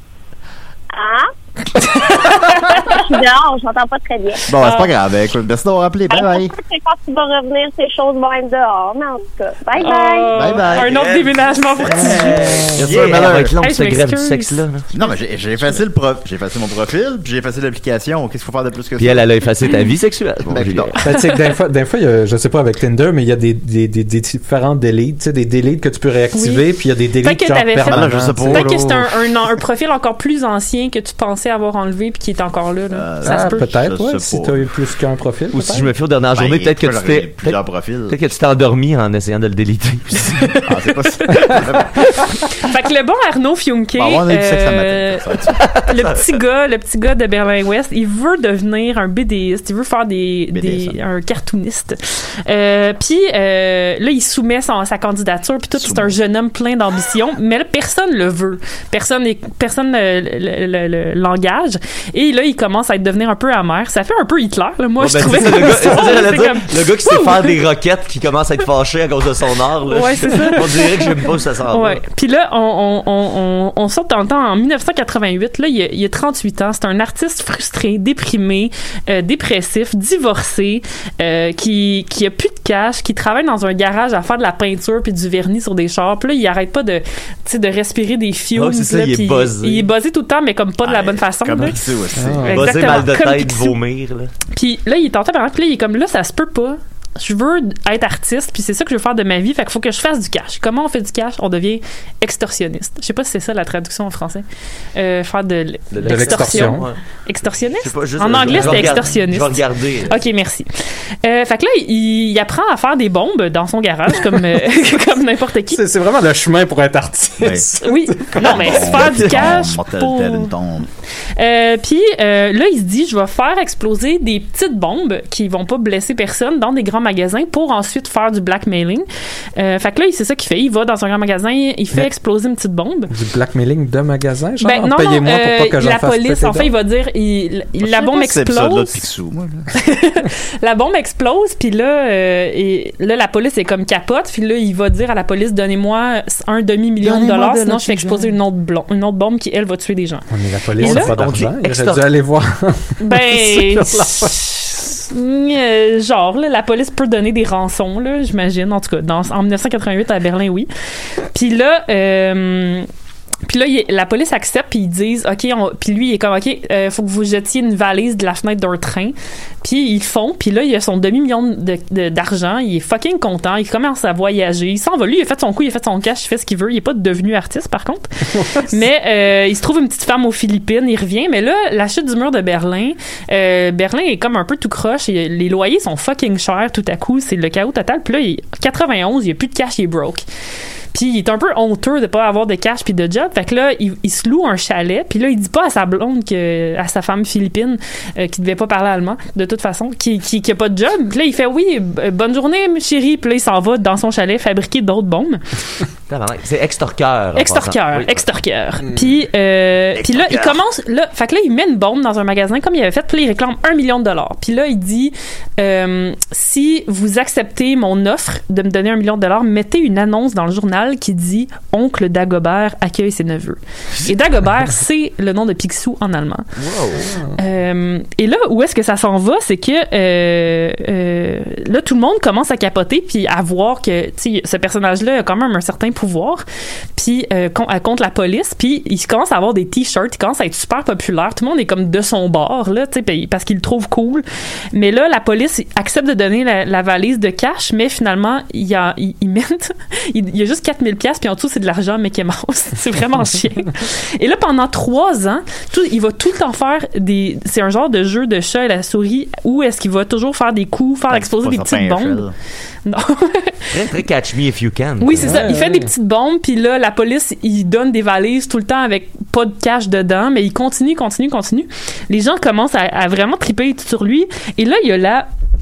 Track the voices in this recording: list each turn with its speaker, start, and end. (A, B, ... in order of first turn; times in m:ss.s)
0:00.9-0:01.3 A
0:01.7-0:03.0 B
0:02.3-0:04.5 A
0:04.5-0:06.5 C
0:04.6-0:04.9 B
0:06.1-0:10.3 A
0:09.8-0:12.7 B
0:10.3-0:11.0 C
0:10.4-0:14.8 D
0:12.1-0:12.5 E
0:12.3-0:13.5 C
0:13.6-0:15.1 B
0:14.9-0:19.3 C
0:19.0-0:21.0 D
0:20.4-0:20.9 C
0:21.0-0:28.7 E
0:21.1-0:21.5 B
0:26.3-0:33.7 B
0:27.9-0:29.3 C
0:32.9-0:34.7 C
0:33.2-0:35.9 E
0:35.5-0:37.6 D
0:36.3-0:38.2 C
0:38.1-0:40.6 D
0:40.6-0:42.0 C
0:41.3-0:45.2 B
0:44.0-0:45.6 C
0:45.6-0:46.2 D
0:45.7-1:07.6 B
0:50.5-0:51.0 C
0:55.7-0:56.2 C
1:05.0-1:12.0 D
1:09.9-1:31.8 B
1:28.5-1:29.9 D
1:30.8-1:33.0 C
1:32.2-1:32.6 E
1:32.5-1:33.8 B
1:32.5-1:34.3 D
1:34.5-1:44.4 B
1:44.9-1:55.8 B
1:45.9-1:47.0 D
1:46.0-1:46.9 E
1:47.8-1:50.2 D
1:48.5-1:49.0 E
1:55.7-1:58.7 E
1:57.4-1:57.7 C
1:57.8-2:00.5 B
1:58.3-2:00.9 C
1:59.0-1:59.4 D
2:01.4-2:13.1 B
2:13.1-2:16.7 E
2:14.6-2:19.0 B
2:17.8-2:19.7 C
2:19.7-2:31.1 B
2:27.0-2:28.3 C
2:30.3-2:34.4 E
2:30.8-2:32.0 D
2:33.0-2:40.7 B
2:41.3-2:42.9 B
2:43.4-3:10.2 B
2:58.4-2:58.8 E
3:10.9-3:25.4 B
3:26.1-3:28.2 D
3:27.4-3:46.5 B
3:30.0-3:30.6 D
3:46.6-3:47.1 D
3:47.4-3:56.4 B
3:57.0-4:22.2 B
4:21.1-4:22.3 C
4:22.8-4:23.7 B
4:23.7-4:25.4 D
4:25.0-4:35.3 B
4:25.1-4:25.9 E